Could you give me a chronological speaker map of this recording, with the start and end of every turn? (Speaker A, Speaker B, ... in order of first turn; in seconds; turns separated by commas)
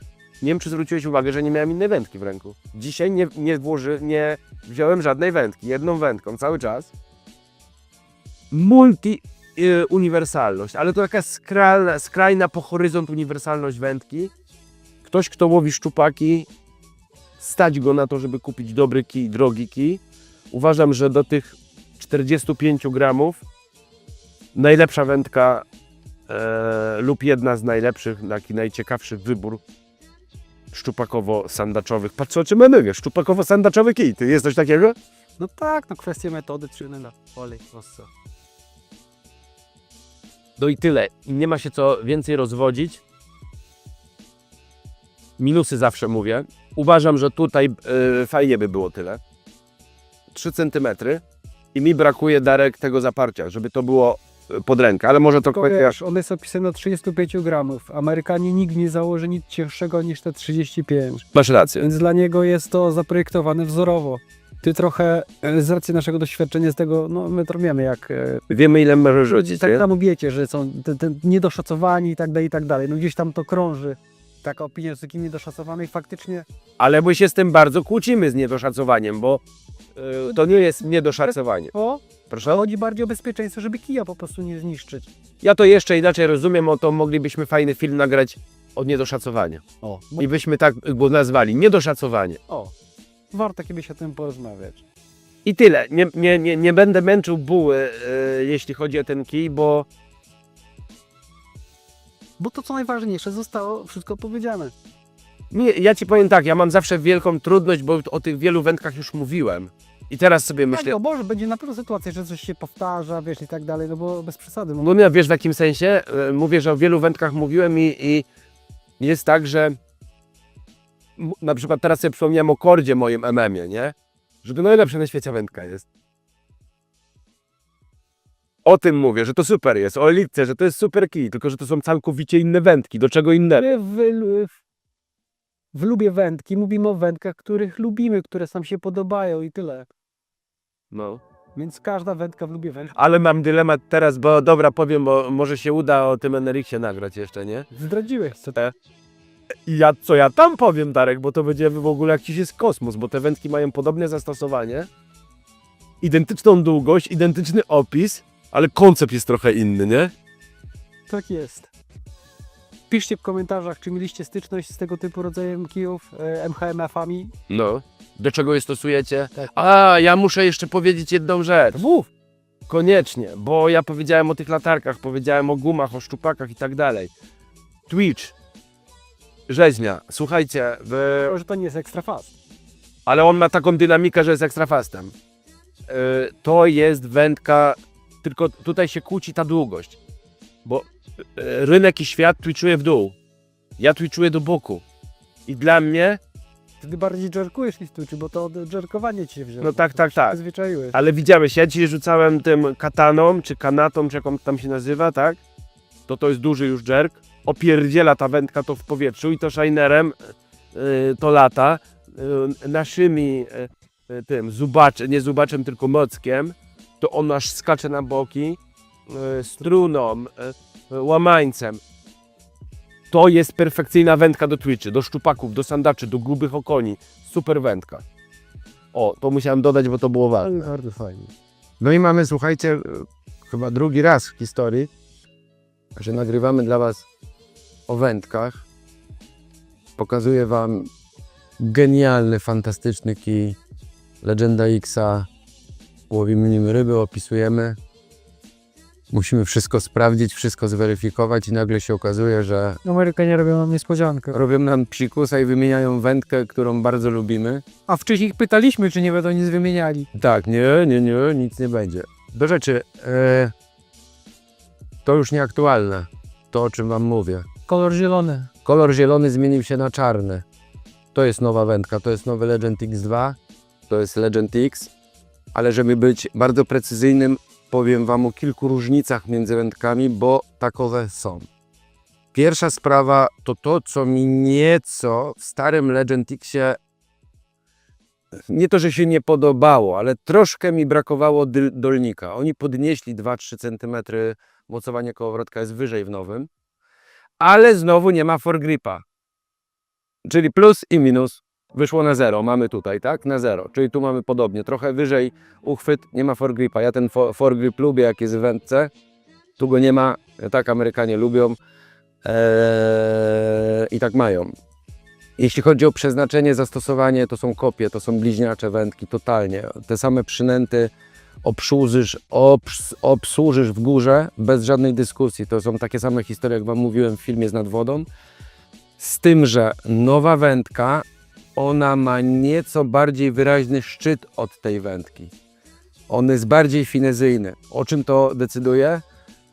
Speaker A: 0.4-6.9, Speaker A: 8.5-14.3, Speaker A: 15.1-16.5, Speaker A: 17.4-23.4, Speaker A: 24.6-25.7, Speaker A: 26.3-29.6, Speaker A: 30.7-35.0, Speaker B: 35.4-38.1, Speaker A: 40.6-43.0, Speaker A: 45.4-49.2, Speaker A: 50.3-51.2, Speaker A: 51.8-56.0, Speaker B: 55.5-61.2, Speaker A: 61.3-61.9, Speaker B: 61.8-68.4, Speaker A: 68.5-69.8, Speaker B: 69.3-76.5, Speaker A: 76.8-79.4, Speaker A: 80.0-81.7, Speaker B: 81.7-85.1, Speaker A: 82.3-82.6, Speaker A: 85.4-89.6, Speaker B: 89.8-90.3, Speaker A: 90.2-92.4, Speaker B: 93.3-94.8, Speaker A: 95.5-99.9, Speaker B: 102.4-104.7, Speaker A: 105.5-111.0, Speaker B: 110.7-114.9, Speaker A: 114.8-118.3, Speaker A: 119.0-119.8, Speaker A: 121.2-125.9, Speaker A: 128.7-133.7, Speaker B: 133.6-134.6, Speaker B: 135.7-139.9, Speaker A: 140.9-141.2, Speaker B: 141.6-142.9, Speaker A: 142.9-147.7, Speaker B: 147.7-148.6, Speaker A: 149.7-154.9, Speaker A: 156.0-160.1, Speaker B: 161.1-161.7, Speaker B: 162.9-167.3, Speaker A: 167.5-171.8, Speaker B: 171.7-172.1, Speaker A: 172.7-177.1, Speaker A: 177.9-178.3, Speaker A: 179.5-181.3, Speaker B: 181.2-182.3, Speaker A: 183.1-185.1, Speaker A: 185.9-190.0, Speaker A: 190.7-193.2, Speaker A: 193.8-194.8, Speaker A: 195.5-196.2, Speaker B: 196.8-201.0, Speaker A: 199.6-200.4, Speaker A: 200.9-205.4, Speaker A: 206.1-221.8, Speaker A: 223.1-228.1, Speaker A: 228.9-230.7, Speaker B: 230.4-231.3, Speaker A: 231.8-234.9, Speaker C: 236.0-237.1, Speaker C: 237.9-238.7, Speaker C: 240.0-240.9, Speaker C: 241.6-243.6, Speaker C: 244.2-245.3, Speaker C: 246.1-247.8, Speaker C: 249.1-252.8, Speaker B: 252.8-254.4, Speaker C: 254.3-257.6, Speaker B: 257.9-260.1, Speaker C: 260.1-263.5, Speaker C: 265.1-267.5, Speaker B: 267.7-268.5, Speaker C: 268.6-270.4, Speaker C: 271.1-273.4, Speaker C: 273.9-274.9, Speaker C: 275.5-281.5, Speaker C: 282.3-286.8, Speaker C: 288.5-296.5, Speaker C: 297.4-299.0, Speaker C: 300.2-308.9, Speaker C: 309.6-311.6, Speaker C: 312.2-314.5, Speaker C: 315.4-320.9, Speaker C: 321.4-328.1, Speaker C: 329.0-335.3, Speaker C: 336.1-339.0